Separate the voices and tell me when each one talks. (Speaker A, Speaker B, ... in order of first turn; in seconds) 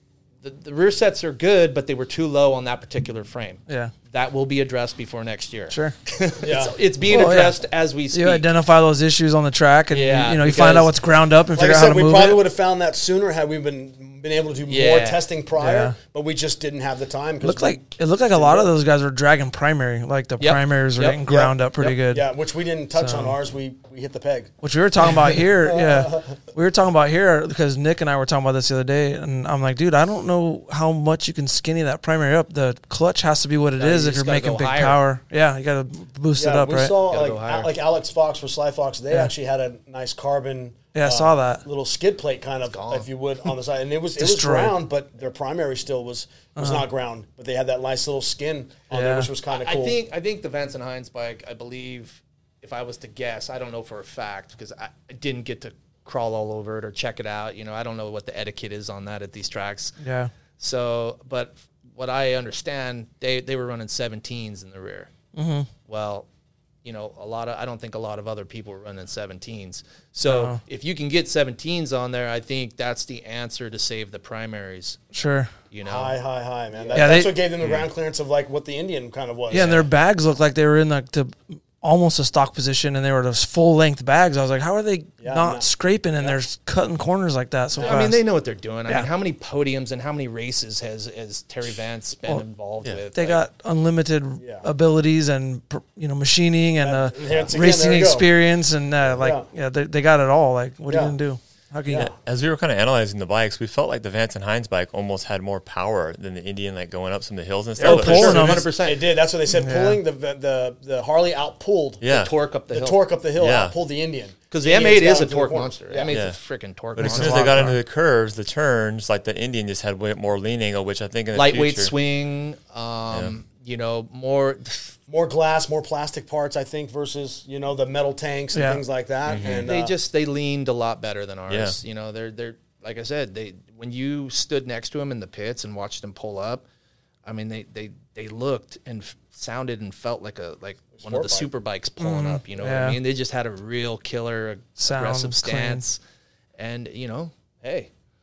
Speaker A: 0.4-8.4, 9.9-10.9, 14.7-15.2, 20.4-21.2, 33.8-35.0, 37.1-37.7, 42.6-43.1, 49.5-60.0, 60.6-65.1, 65.9-66.3, 66.8-75.0, 75.7-76.2, 76.8-77.2, 79.5-79.8, 87.8-93.4, 107.8-109.0, 112.0-113.0, 114.5-117.7, 121.3-124.9, 129.6-136.6, 137.2-146.0, 146.6-147.9
Speaker B: 3.7-3.9, 5.7-6.0, 7.1-7.6, 8.1-12.4, 15.6-15.9, 17.4-22.3, 22.9-23.3, 24.6-36.9, 40.9-41.6, 44.2-44.7, 46.6-46.8, 48.9-49.3, 60.0-60.3, 65.3-65.7, 70.2-70.6, 75.1-75.5, 76.9-77.4, 79.5-88.2, 93.1-102.1, 107.8-108.7, 109.5-110.0, 117.0-117.8, 128.5-128.8, 142.0-143.0, 144.8-145.8
Speaker C: 6.4-6.7, 11.5-18.7, 21.2-24.5, 25.4-26.4, 36.3-50.0, 75.8-79.9, 85.2-85.7, 87.7-88.0, 94.4-94.7, 96.8-98.3, 99.0-99.5, 100.9-101.2, 101.9-102.1, 107.8-112.0, 112.7-116.2, 125.1-129.9, 140.9-141.5
Speaker D: 77.6-77.9, 101.9-108.5, 112.0-112.3, 113.4-113.7, 116.1-116.3, 117.0-121.9, 129.3-129.7, 131.5-131.7